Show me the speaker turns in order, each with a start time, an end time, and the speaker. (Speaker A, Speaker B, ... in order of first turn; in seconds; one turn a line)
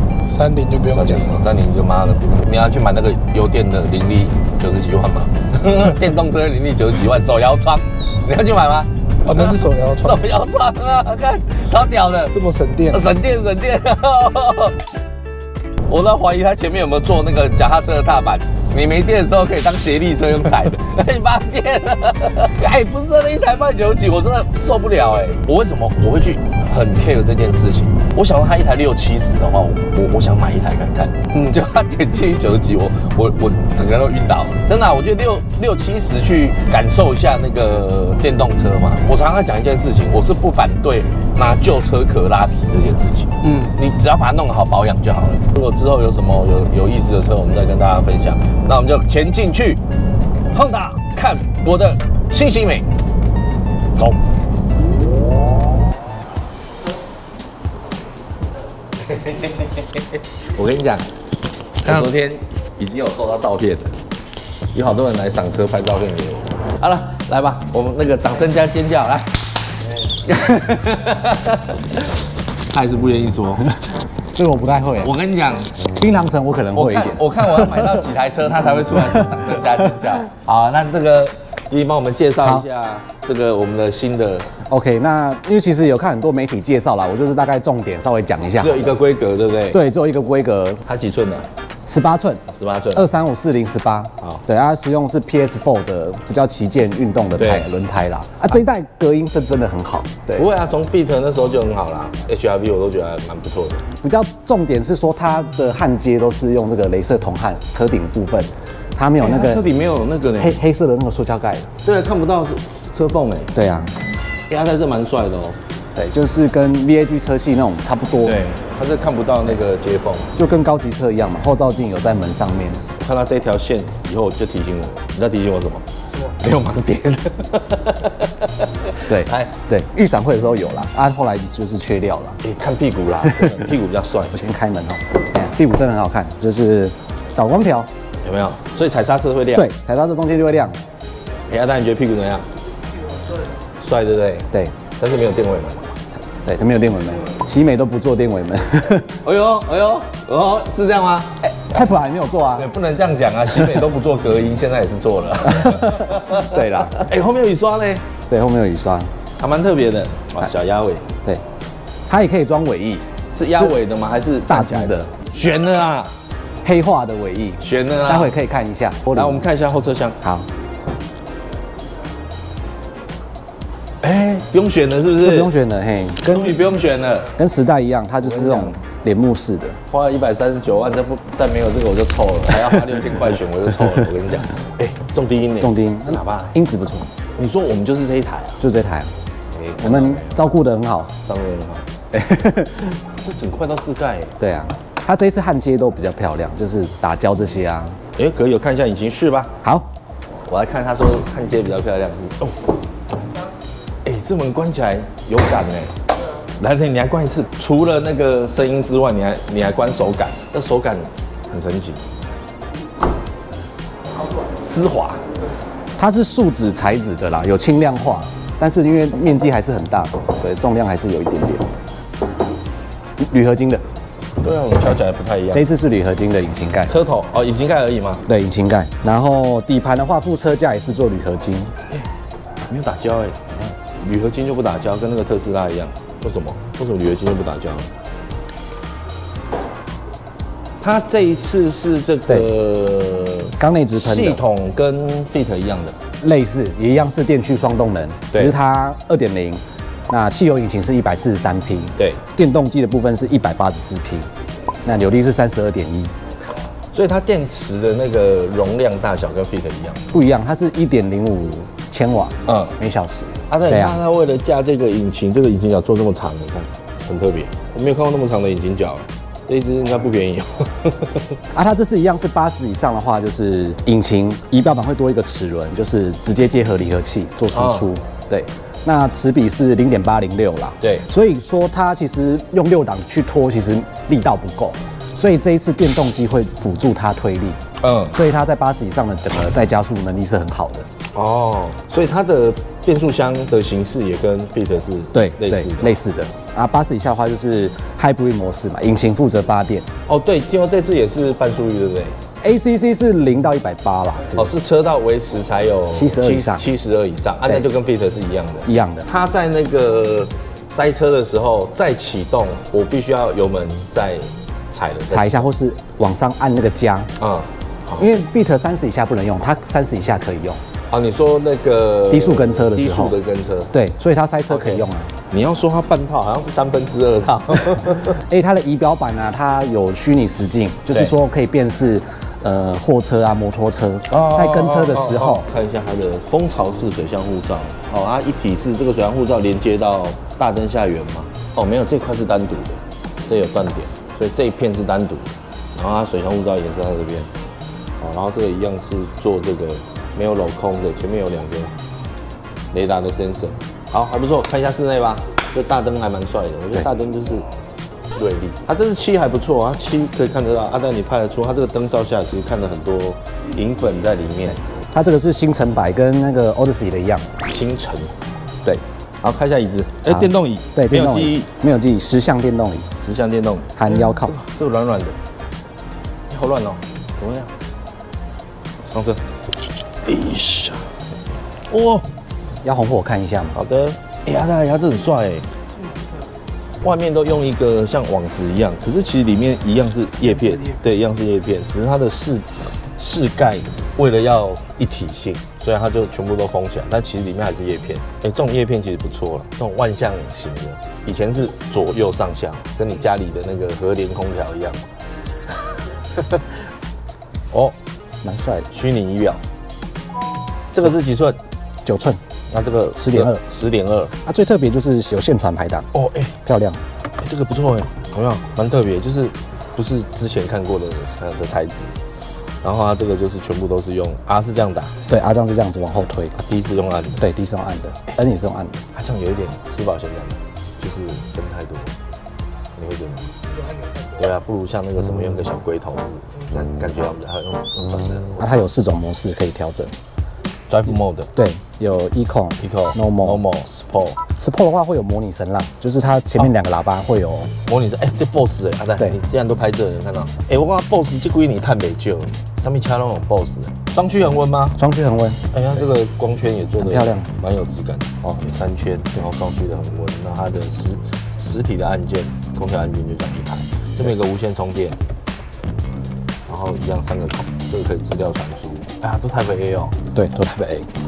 Speaker A: 0.3-1.5
Speaker B: 0.9-12.3
Speaker A: 9.2-10.2
Speaker A: 12.3-13.0
Speaker B: 12.9-14.8
Speaker B: 15.9-49.8
Speaker A: 43.4-43.7
Speaker B: 50.5-52.9
Speaker B: 59.0-61.0
Speaker B: 61.8-63.9
Speaker B: 64.7-69.4
Speaker B: 70.0-73.8
Speaker C: 74.3-75.1
Speaker B: 75.0-75.9
Speaker C: 75.8-78.1
Speaker B: 76.7-84.5
Speaker C: 78.9-79.3
Speaker C: 82.4-82.7
Speaker C: 84.7-89.0
Speaker B: 88.6-89.8
Speaker C: 89.7-90.8
Speaker B: 90.8-91.5
Speaker C: 91.9-100.5
Speaker B: 92.5-93.0
Speaker B: 97.3-97.7
Speaker B: 100.3-103.8
Speaker C: 104.0-109.6
Speaker B: 109.2-110.6
Speaker C: 110.4-111.7
Speaker B: 111.8-113.5
Speaker C: 113.5-113.9
Speaker B: 114.5-115.6
Speaker C: 115.9-118.4
Speaker B: 118.2-120.3
Speaker C: 120.3-122.8
Speaker B: 123.0-129.5
Speaker C: 129.1-132.4
Speaker B: 132.4-134.3
Speaker C: 134.3-137.9
Speaker B: 138.2-139.7
Speaker C: 139.5-140.8
Speaker B: 141.5-142.5
Speaker B: 143.8-145.9
Speaker C: 146.3-149.2
Speaker B: 149.2-151.4
Speaker C: 151.4-152.7
Speaker B: 152.6-158.1
Speaker C: 153.5-153.8
Speaker C: 155.5-157.0
Speaker C: 158.3-159.1
Speaker B: 159.4-161.1
Speaker C: 162.1-163.0
Speaker B: 163.3-166.2
Speaker C: 164.4-165.1
Speaker C: 166.6-169.4
Speaker B: 167.6-168.3
Speaker B: 169.1-170.2
Speaker C: 170.2-170.5
Speaker B: 174.0-175.5
Speaker C: 175.2-176.6
Speaker B: 176.3-177.3
Speaker C: 177.3-179.8
Speaker B: 178.2-178.8
Speaker B: 179.9-186.6
Speaker C: 185.6-187.1
Speaker B: 187.4-188.6
Speaker C: 188.6-189.1
Speaker B: 189.5-190.4
Speaker C: 189.8-191.1
Speaker B: 191.2-191.9
Speaker C: 192.1-193.0
Speaker B: 193.2-194.3
Speaker C: 194.4-198.0
Speaker B: 198.2-199.5
Speaker C: 199.6-199.9
Speaker B: 200.5-202.6
Speaker B: 204.0-205.9
Speaker B: 206.6-212.0
Speaker B: 214.4-215.2
Speaker C: 216.0-221.7
Speaker C: 223.2-223.8
Speaker B: 224.4-225.7
Speaker C: 225.5-227.0
Speaker B: 226.9-228.2
Speaker C: 228.3-231.7
Speaker B: 232.7-237.9
Speaker B: 240.8-245.9
Speaker C: 243.6-244.4
Speaker C: 246.2-254.3
Speaker B: 252.0-252.2
Speaker C: 254.8-256.1
Speaker B: 256.9-260.1
Speaker C: 260.1-264.0
Speaker B: 262.4-262.8
Speaker B: 263.5-271.2
Speaker C: 271.5-287.6
Speaker B: 277.5-277.9
Speaker B: 280.8-281.1
Speaker B: 287.8-288.1
Speaker C: 288.1-290.9
Speaker B: 291.1-295.9
Speaker C: 295.1-299.9
Speaker B: 300.1-302.2
Speaker C: 302.4-304.5
Speaker B: 304.3-315.5
Speaker C: 305.9-306.6
Speaker C: 308.6-309.1
Speaker C: 315.1-317.1
Speaker B: 317.2-318.2
Speaker C: 318.0-320.6
Speaker B: 320.9-323.7
Speaker C: 322.1-323.1
Speaker C: 323.7-325.1
Speaker B: 324.5-328.2
Speaker C: 328.1-335.4
Speaker B: 334.1-347.3
Speaker B: 348.0-351.7
Speaker B: 352.7-357.4
Speaker B: 358.1-364.6
Speaker C: 364.9-367.3
Speaker B: 367.5-368.1
Speaker B: 369.2-371.5
Speaker C: 370.1-372.9
Speaker B: 373.0-375.2
Speaker C: 373.8-374.4
Speaker B: 376.3-377.5
Speaker B: 378.9-379.2
Speaker B: 380.0-381.0
Speaker B: 381.7-382.1
Speaker C: 382.6-383.6
Speaker B: 383.5-385.5
Speaker B: 386.8-404.9
Speaker B: 407.5-407.8
Speaker C: 408.2-408.7
Speaker B: 408.7-409.4
Speaker B: 410.7-411.4
Speaker C: 411.8-412.2
Speaker B: 412.5-414.1
Speaker C: 412.9-413.4
Speaker C: 414.2-415.9
Speaker B: 415.9-416.4
Speaker C: 416.4-416.8
Speaker B: 417.2-422.0
Speaker B: 422.6-424.9
Speaker C: 425.1-426.4
Speaker B: 426.4-427.3
Speaker C: 427.2-428.8
Speaker B: 428.9-431.9
Speaker B: 432.7-433.3
Speaker A: 433.6-434.1
Speaker B: 434.1-438.6
Speaker C: 438.4-439.9
Speaker B: 440.7-441.3
Speaker C: 441.3-443.4
Speaker B: 442.6-444.2
Speaker C: 444.4-447.5
Speaker B: 447.6-454.8
Speaker C: 454.8-455.5
Speaker B: 455.5-465.0
Speaker C: 456.8-457.3
Speaker B: 466.5-469.9
Speaker C: 470.1-470.9